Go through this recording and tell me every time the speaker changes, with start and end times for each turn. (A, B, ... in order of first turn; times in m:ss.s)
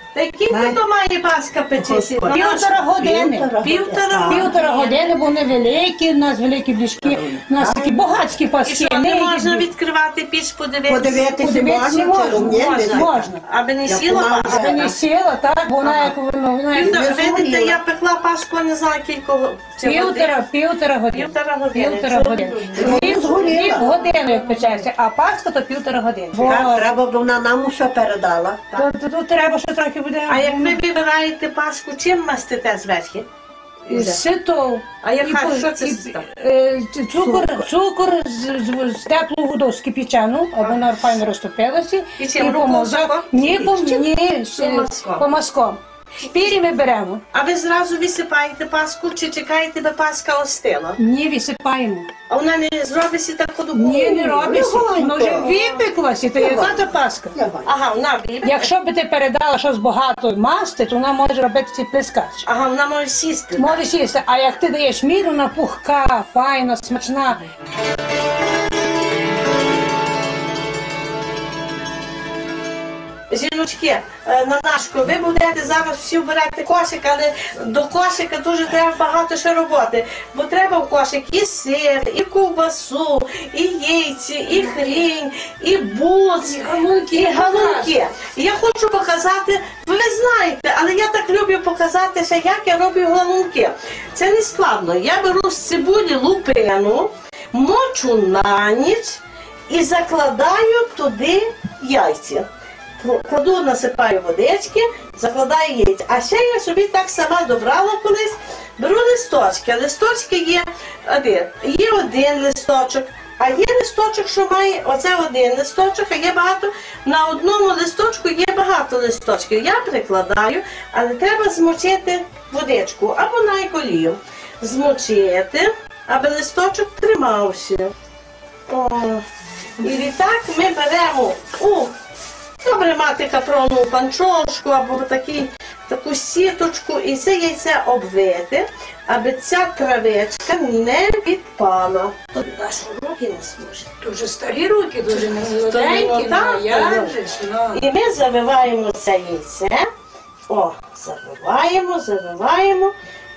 0:00.1-0:02.7 A
0:00.5-0:00.8 B
0:01.8-0:02.3 B
0:02.3-0:03.5 C
0:03.0-0:04.5 B
0:03.6-0:05.0 A
0:04.3-0:09.6 C
0:07.6-0:08.1 B
0:08.6-0:11.2 A
0:10.9-0:13.3 B
0:11.3-0:13.4 C
0:12.6-0:14.9 A
0:13.8-0:14.9 B
0:14.4-0:17.1 C
0:15.8-0:16.1 B
0:16.7-0:17.8 B
0:16.7-0:20.3 A
0:19.8-0:26.9 C
0:21.1-0:24.8 A
0:22.7-0:23.9 B
0:26.3-0:28.6 B
0:28.7-0:30.8 C
0:30.3-0:33.3 A
0:33.9-0:47.2 C
0:33.9-0:34.2 A
0:35.0-0:36.2 A
0:37.2-0:37.6 B
0:42.2-0:45.2 A
0:47.3-0:51.0 A
0:51.0-0:52.1 C
0:52.3-0:54.6 A
0:53.7-0:57.3 C
0:54.4-0:55.8 B
0:56.3-0:57.7 B
0:56.4-0:56.8 A
0:57.6-0:58.6 A
0:58.4-1:02.4 C
1:02.4-1:03.8 A
1:03.6-1:07.4 C
1:13.3-1:26.6 A
1:24.5-1:25.0 C
1:26.4-1:27.9 C
1:27.1-1:42.5 A
1:43.0-2:07.9 A
2:08.7-2:09.2 A
2:09.8-2:11.9 A
2:12.6-2:23.9 A
2:23.9-2:27.8 C
2:25.1-2:27.1 A
2:27.7-2:29.8 A
2:30.5-2:32.9 A